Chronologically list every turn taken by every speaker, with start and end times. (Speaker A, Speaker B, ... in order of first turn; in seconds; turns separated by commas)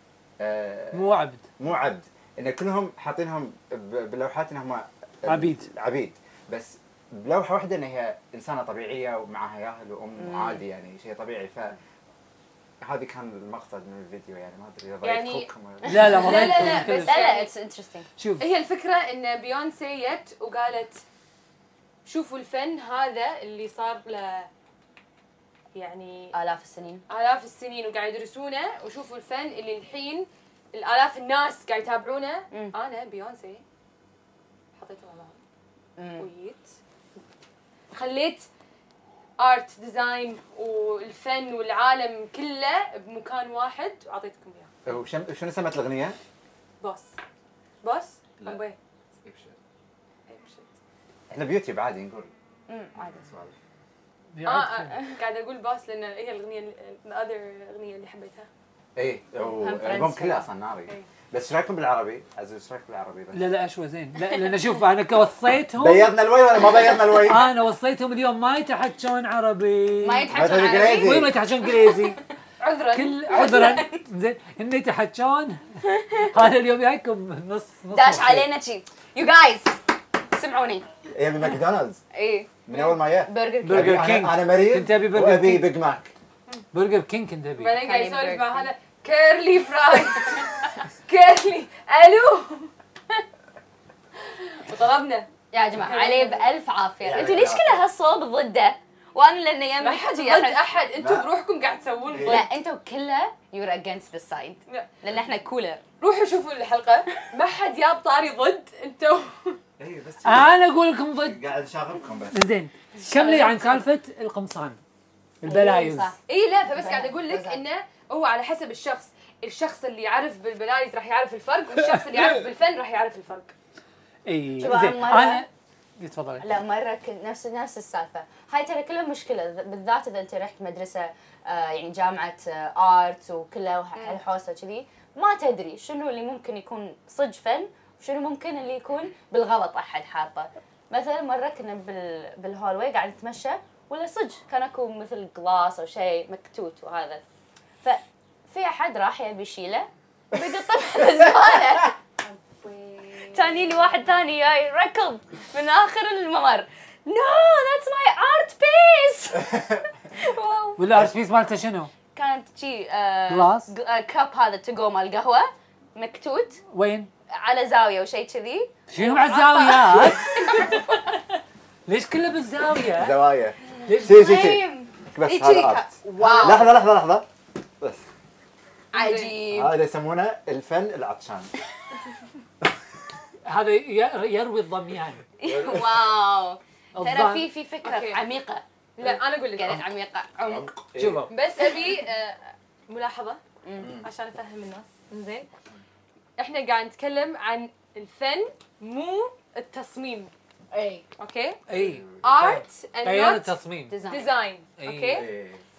Speaker A: 0.4-1.1, Speaker B: 0.9-1.4, Speaker A: 1.6-11.8, Speaker B: 5.2-5.7, Speaker C: 10.2-10.6, Speaker A: 12.8-16.7, Speaker D: 15.0-15.5, Speaker C: 15.8-18.1, Speaker B: 15.9-17.2, Speaker D: 16.1-17.5, Speaker B: 18.2-18.4, Speaker D: 18.4-21.0, Speaker D: 22.1-24.5, Speaker D: 25.7-26.3, Speaker C: 26.3-27.0, Speaker D: 27.1-33.6, Speaker D: 34.8-35.4, Speaker C: 36.0-36.3, Speaker D: 36.2-36.7, Speaker D: 37.9-38.4, Speaker D: 39.4-44.7, Speaker A: 44.9-46.2, Speaker D: 46.8-47.1, Speaker D: 47.8-48.8, Speaker A: 49.2-49.5, Speaker D: 50.3-50.7, Speaker A: 51.3-52.3, Speaker C: 52.7-53.2, Speaker A: 53.0-53.5, Speaker B: 54.3-55.0, Speaker D: 54.4-58.5, Speaker A: 59.0-63.5, Speaker C: 59.4-60.5, Speaker B: 63.3-66.1, Speaker A: 65.8-67.5, Speaker B: 67.0-72.2, Speaker C: 70.0-72.1, Speaker A: 70.3-71.3, Speaker D: 72.6-73.3, Speaker B: 72.9-78.5, Speaker C: 73.3-74.0, Speaker C: 75.9-76.3, Speaker C: 77.9-80.9, Speaker A: 81.1-82.0, Speaker C: 82.1-84.1, Speaker A: 82.7-86.1, Speaker B: 83.6-85.8, Speaker B: 86.7-87.8, Speaker D: 87.6-92.7, Speaker C: 87.8-88.7, Speaker D: 94.3-96.4, Speaker C: 95.5-100.6, Speaker A: 97.0-97.8, Speaker D: 99.8-102.5, Speaker A: 101.0-101.3, Speaker A: 102.1-102.5, Speaker C: 102.2-105.8, Speaker D: 106.0-109.6, Speaker A: 109.8-110.5, Speaker B: 110.2-111.4, Speaker A: 111.2-112.4, Speaker B: 112.3-114.8, Speaker D: 113.1-113.8, Speaker B: 115.4-116.1, Speaker C: 115.4-116.2, Speaker D: 116.3-123.5, Speaker C: 116.7-117.6, Speaker B: 121.8-122.3, Speaker B: 124.2-125.5, Speaker C: 124.6-125.5, Speaker B: 126.0-126.5, Speaker C: 126.4-147.2, Speaker D: 133.9-134.2, Speaker C: 147.8-152.0, Speaker D: 152.2-154.0, Speaker C: 153.2-160.9, Speaker A: 159.5-159.8, Speaker B: 160.8-161.9, Speaker C: 162.1-166.6, Speaker B: 163.3-163.7, Speaker B: 166.7-167.1, Speaker C: 167.3-171.2, Speaker B: 168.9-170.7, Speaker B: 171.9-173.2, Speaker A: 172.9-177.3, Speaker B: 173.8-174.4, Speaker C: 173.9-176.8, Speaker D: 178.9-179.4, Speaker C: 178.9-179.8, Speaker A: 179.5-181.5, Speaker B: 183.4-185.2, Speaker C: 185.4-188.6, Speaker A: 185.4-186.2, Speaker B: 186.9-187.5, Speaker D: 187.8-188.2, Speaker D: 189.0-189.8, Speaker A: 189.0-189.8, Speaker C: 189.5-190.7, Speaker A: 190.4-191.3, Speaker B: 190.9-191.3, Speaker D: 191.3-193.4, Speaker C: 191.6-191.8, Speaker C: 193.6-194.0, Speaker A: 193.8-194.1, Speaker D: 194.0-195.4, Speaker D: 196.4-200.3, Speaker C: 200.7-201.1, Speaker D: 201.2-201.6, Speaker B: 201.7-203.9, Speaker A: 201.7-202.4, Speaker D: 202.2-203.6, Speaker C: 203.9-204.3, Speaker D: 204.1-205.3, Speaker B: 204.8-205.2, Speaker A: 205.1-205.6